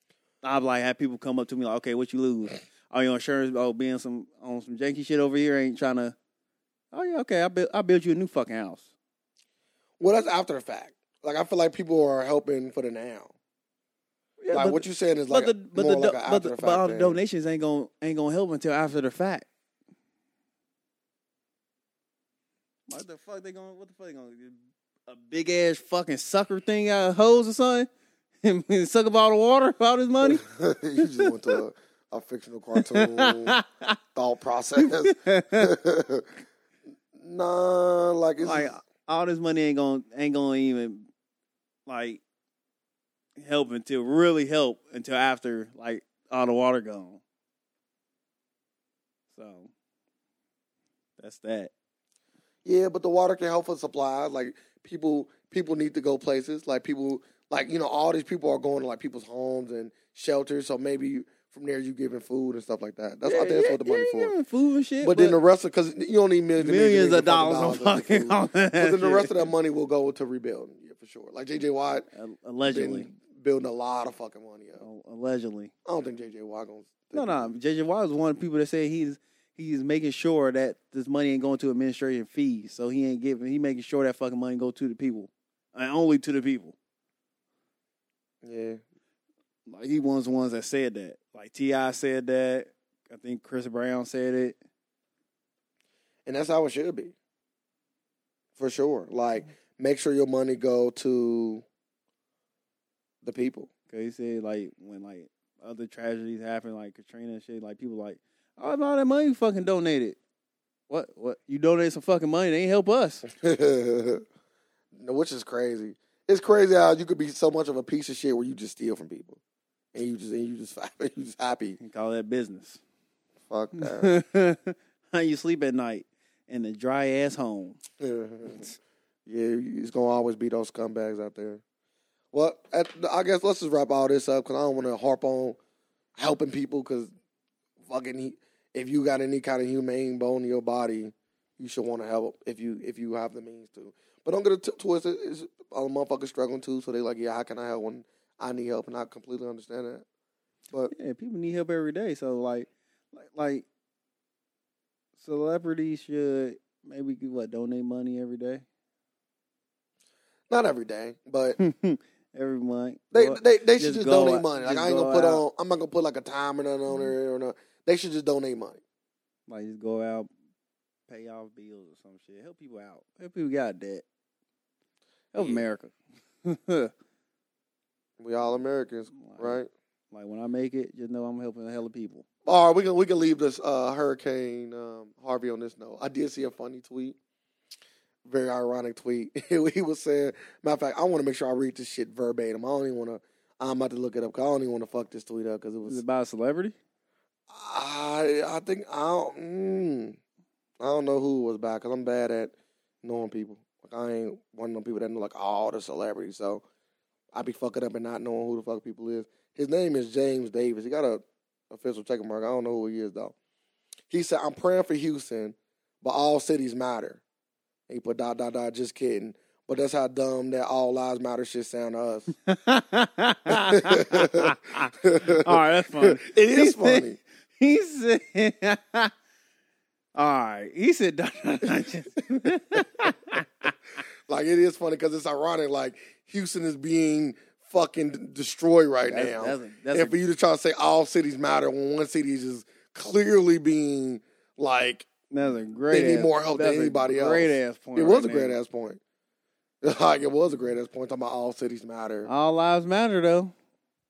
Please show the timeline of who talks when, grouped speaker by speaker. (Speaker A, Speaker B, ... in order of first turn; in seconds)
Speaker A: 0.4-6.2, 6.9-8.9, 14.4-19.5, 22.9-24.6, 25.1-27.9, 28.4-30.4, 31.0-31.6, 32.8-34.0, 34.8-35.7, 38.4-41.1, 41.9-42.2, 43.4-47.2, 49.3-49.7, 51.2-51.7, 63.2-65.4, 66.6-69.5, 72.2-73.1, 74.8-75.7, 77.1-86.8, 89.7-94.6, 103.9-110.2, 110.9-113.3, 121.8-122.8, 123.8-127.8, 128.5-128.7, 150.9-153.7, 155.2-158.6, 161.6-165.4, 169.5-170.3, 171.1-174.0, 175.3-175.9, 176.4-176.9, 179.2-179.6, 180.1-182.2, 195.9-196.8, 222.5-227.1, 227.6-229.1, 230.2-233.7, 239.1-240.2, 245.3-248.6, 252.3-253.5
Speaker B: 10.0-13.3, 14.5-17.2, 30.2-33.6, 34.1-36.3, 37.2-38.7, 52.6-64.3, 65.0-72.1, 72.7-74.8, 75.8-77.5, 88.4-88.8, 96.3-97.1, 98.6-101.7, 103.2-103.7, 113.3-114.2, 115.0-119.4, 119.9-121.8, 123.5-124.1, 128.0-128.7, 129.3-131.6, 132.3-135.6, 136.2-137.1, 137.8-150.1, 160.5-161.6, 163.1-168.8, 175.3-175.7, 178.2-179.7, 182.5-187.2, 188.2-196.0, 197.5-200.2, 200.8-206.6, 207.3-213.3, 214.1-217.2, 217.9-222.3, 223.5-227.2, 234.3-245.1, 245.9-249.0, 249.8-252.3